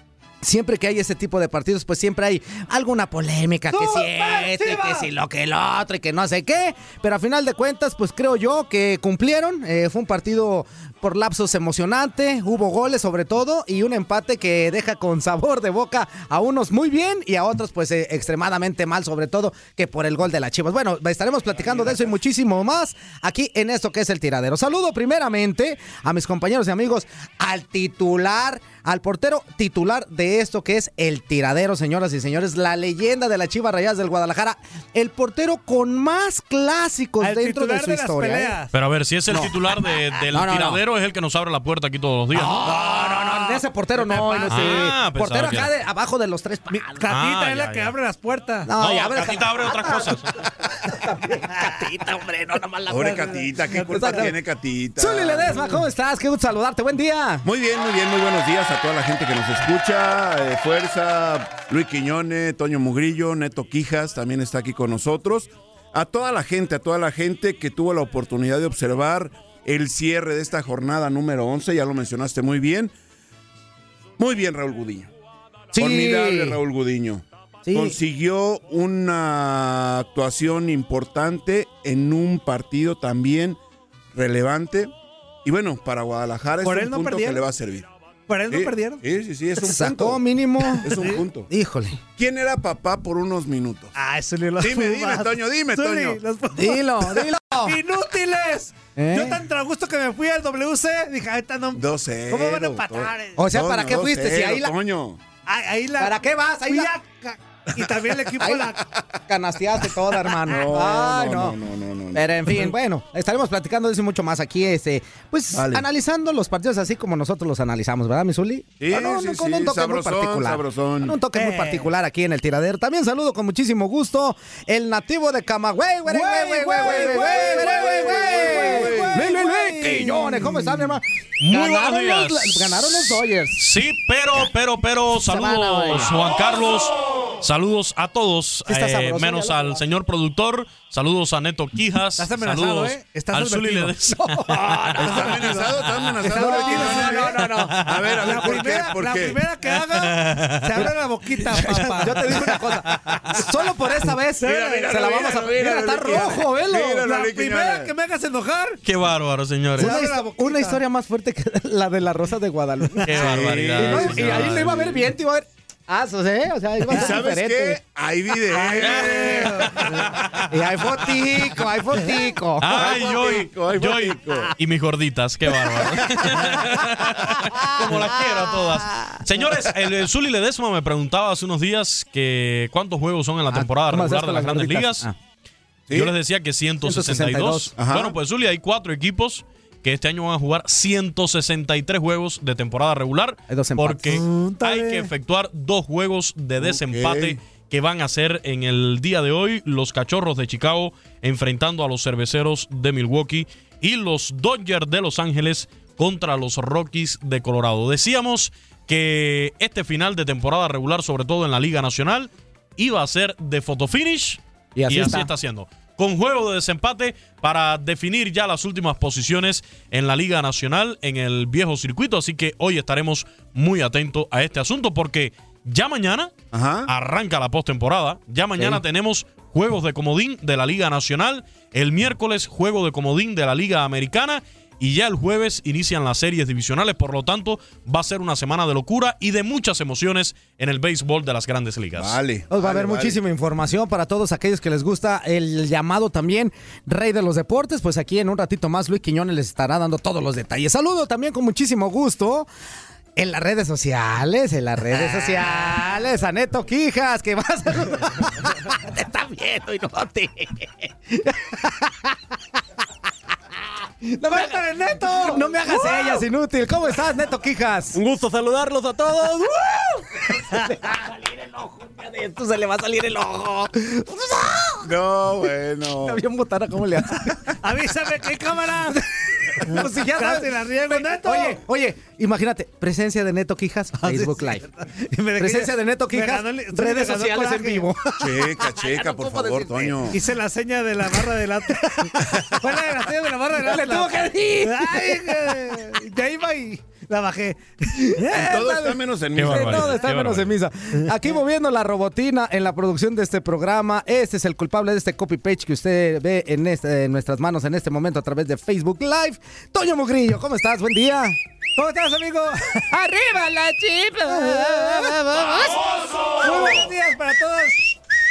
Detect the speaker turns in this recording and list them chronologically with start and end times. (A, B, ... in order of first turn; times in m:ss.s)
0:00.4-0:38.6 A
0:03.7-0:05.1 B
0:37.2-0:38.7 B
0:38.7-0:42.8 C
0:39.3-0:39.6 A
0:40.3-0:40.8 A
0:42.3-0:47.0 A
0:44.1-0:44.8 B
0:44.5-0:45.7 C
0:46.7-0:48.7 B
0:47.1-0:47.9 C
0:48.6-0:54.4 A
0:48.8-0:50.3 C
0:52.9-0:55.6 D
0:53.7-0:54.3 B
0:55.0-0:57.5 A
0:57.4-1:12.9 D
1:14.2-1:15.1 D
1:15.7-1:23.6 D
1:15.8-1:16.6 A
1:17.6-1:18.0 A
1:24.1-1:24.9 D
1:25.4-1:27.9 D
1:26.6-1:27.4 B
1:28.3-1:29.0 B
1:28.5-1:30.2 D
1:29.6-1:32.0 A
1:30.8-1:31.5 D
1:30.9-1:31.2 B
1:32.2-1:33.9 D
1:34.0-1:43.4 B
1:34.6-1:36.2 D
1:36.5-1:37.8 A
1:39.0-1:39.4 A
1:41.7-1:45.2 D
1:43.4-1:44.7 A
1:45.5-1:48.8 B
1:46.0-1:46.9 A
1:48.4-1:51.6 A
1:50.5-1:52.3 D
1:52.1-2:13.7 A
1:55.5-1:55.8 D
1:58.8-2:01.2 D
2:01.3-2:01.9 B
2:06.1-2:10.5 B
2:06.8-2:10.1 D
2:11.4-2:25.3 C
2:15.1-2:16.3 A
2:18.7-2:19.8 A
2:22.2-2:24.0 B
2:24.2-2:25.4 A
2:25.0-2:29.4 D
2:26.2-2:28.7 A
2:26.2-2:32.6 B
2:30.2-2:30.8 C
2:31.5-2:37.1 A
2:32.9-2:33.2 C
2:34.4-2:35.2 B
2:34.4-2:37.9 D
2:37.0-2:38.8 B
2:38.8-2:40.0 C
2:39.8-2:47.8 A
2:39.8-2:40.8 B
2:43.0-2:45.0 C
2:43.2-2:45.0 D
2:46.9-2:50.0 D
2:48.5-2:50.0 B
2:50.2-2:50.5 C
2:50.5-2:52.8 A
2:52.6-3:05.1 C
2:52.7-2:54.5 D
2:56.2-2:57.0 A
2:57.5-2:59.2 A
3:03.5-3:05.1 A
3:05.9-3:46.3 C
3:06.8-3:07.7 A
3:07.8-3:08.2 D
3:13.5-3:14.2 A
3:14.2-3:15.1 B
3:16.6-3:17.4 D
3:34.8-3:35.3 A
3:46.5-3:46.9 D
3:46.9-4:02.2 C
3:48.6-3:48.8 A
4:02.0-4:03.2 D
4:02.5-4:12.5 A
4:13.2-4:22.2 A
4:24.0-4:28.0 A
4:24.3-4:26.2 B
4:28.9-4:34.9 A
4:34.8-4:36.2 D
4:36.0-4:37.6 A
4:37.6-4:39.0 B
4:39.6-4:44.7 A
4:39.6-4:41.6 B
4:44.0-4:47.9 B
4:45.4-4:50.2 A
4:48.2-4:50.2 D
4:50.1-4:58.8 B
4:53.6-4:55.8 A
4:57.9-5:11.4 A
4:58.3-5:00.0 D
4:59.4-5:00.5 C
5:11.8-5:12.9 B
5:12.9-5:15.8 A
5:14.2-5:15.4 B
5:16.4-5:17.9 B